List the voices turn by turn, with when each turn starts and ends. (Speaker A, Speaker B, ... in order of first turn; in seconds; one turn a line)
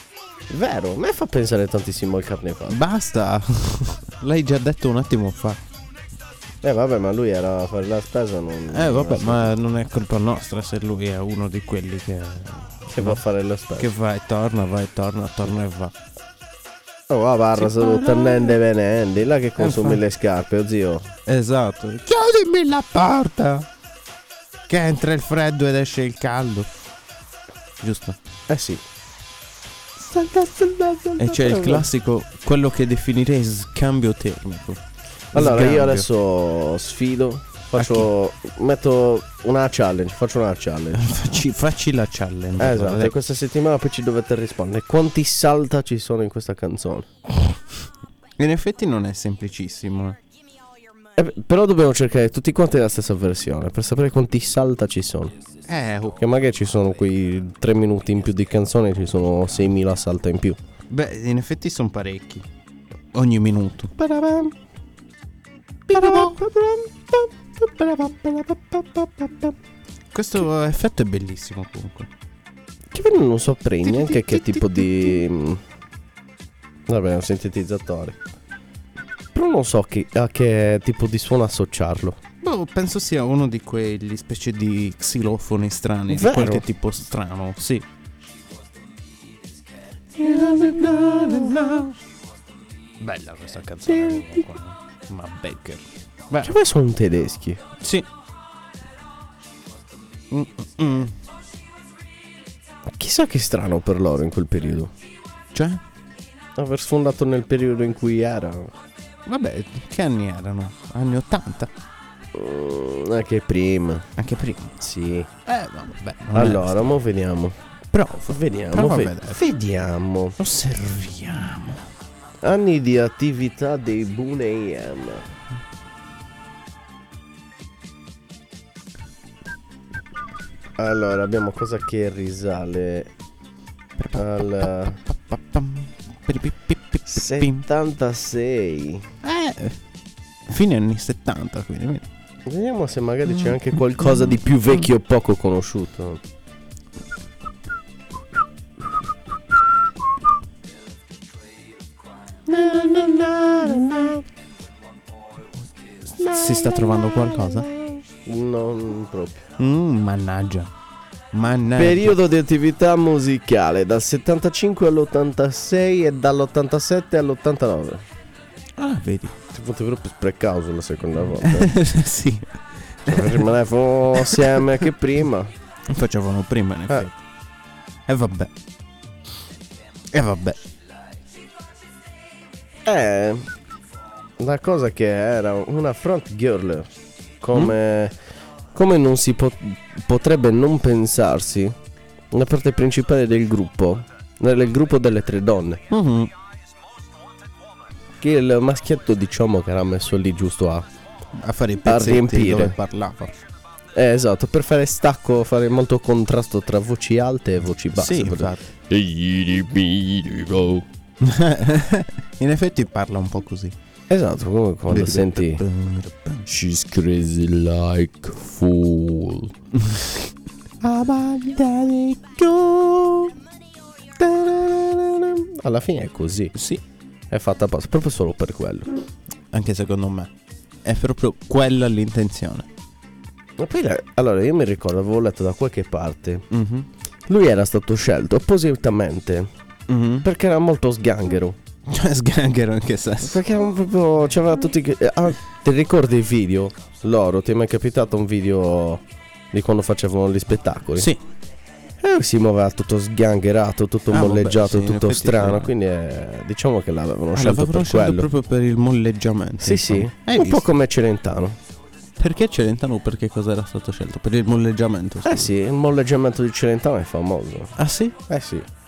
Speaker A: 0.5-2.8
Speaker B: 2.7-5.6
Speaker A: 6.6-9.5
Speaker B: 8.7-13.2
Speaker A: 12.9-13.9
Speaker B: 13.7-15.9
Speaker A: 17.1-21.1
Speaker B: 17.5-18.6
Speaker B: 19.6-20.0
Speaker B: 21.2-23.7
Speaker B: 24.7-26.7
Speaker B: 27.8-28.2
Speaker A: 28.5-28.8
Speaker A: 30.0-31.9
Speaker B: 31.2-34.8
Speaker B: 35.3-36.1
Speaker A: 35.3-41.1
Speaker B: 37.7-38.1
Speaker B: 40.9-43.1
Speaker A: 42.6-47.1
Speaker B: 48.4-50.2
Speaker A: 51.2-55.3
Speaker B: 55.7-56.2
Speaker A: 56.2-60.6
Speaker B: 60.9-62.5
Speaker B: 63.1-63.9
Speaker A: 64.0-64.5
Speaker B: 65.9-66.4
Speaker A: 65.9-69.5
Speaker B: 70.1-72.1
Speaker A: 72.9-75.6
Speaker B: 73.8-75.2
Speaker A: 76.9-78.2
Speaker A: 79.3-82.2
Speaker B: 82.4-87.9
Speaker A: 86.1-86.7
Speaker B: 90.2-92.0
Speaker A: 90.2-91.4
Speaker B: 93.0-96.5
Speaker A: 94.0-94.2
Speaker A: 96.4-97.6
Speaker B: 97.8-98.1
Speaker B: 100.3-101.2
Speaker A: 102.9-104.9
Speaker B: 105.5-105.8
Speaker A: 106.5-108.7
Speaker B: 109.2-111.7
Speaker A: 112.3-114.1
Speaker B: 114.2-114.8
Speaker A: 114.8-115.3
Speaker B: 115.5-116.9
Speaker A: 116.3-117.5
Speaker B: 117.9-119.4
Speaker A: 118.2-120.4
Speaker B: 120.4-121.8
Speaker A: 122.4-125.2
Speaker A: 130.8-133.1
Speaker B: 134.0-137.7
Speaker A: 134.1-135.0
Speaker A: 137.1-139.0
Speaker B: 139.2-139.8
Speaker B: 140.5-142.1
Speaker A: 142.4-146.2
Speaker A: 152.5-154.2
Speaker B: 152.5-154.0
Speaker A: 156.2-159.4
Speaker B: 156.2-157.7
Speaker B: 159.6-160.7
Speaker B: 161.3-162.2
Speaker A: 161.8-168.0
Speaker B: 168.8-169.3
Speaker A: 169.5-171.7
Speaker B: 171.4-173.5
Speaker A: 173.1-175.5
Speaker B: 174.1-174.9
Speaker B: 175.9-177.2
Speaker B: 178.1-178.5
Speaker B: 180.1-180.6
Speaker A: 182.8-183.4
Speaker A: 184.4-186.9
Speaker A: 187.4-188.1
Speaker A: 188.7-191.7
Speaker A: 192.3-195.8
Speaker B: 195.9-196.3
Speaker A: 198.2-200.9
Speaker B: 201.3-203.4
Speaker A: 201.8-202.8
Speaker A: 203.9-210.8
Speaker B: 207.9-208.7
Speaker B: 211.2-213.7
Speaker A: 214.1-215.6
Speaker B: 214.9-216.5
Speaker A: 216.5-219.5
Speaker B: 219.8-220.1
Speaker B: 220.8-221.2
Speaker A: 220.8-223.3
Speaker A: 224.2-226.5
Speaker B: 226.5-226.8
Speaker A: 227.3-228.9
Speaker B: 229.5-230.3
Speaker B: 230.8-232.7
Speaker A: 233.6-236.4
Speaker B: 236.5-236.9
Speaker A: 237.3-239.5
Speaker B: 239.9-240.3
Speaker A: 240.2-241.6
Speaker B: 241.9-243.4
Speaker A: 243.2-251.1
Speaker B: 250.9-251.2
Speaker A: 252.0-258.3
Speaker B: 254.1-255.7
Speaker B: 257.3-260.7
Speaker A: 259.6-261.6
Speaker B: 262.2-265.5
Speaker A: 265.2-267.7
Speaker B: 267.8-268.2
Speaker A: 268.3-268.7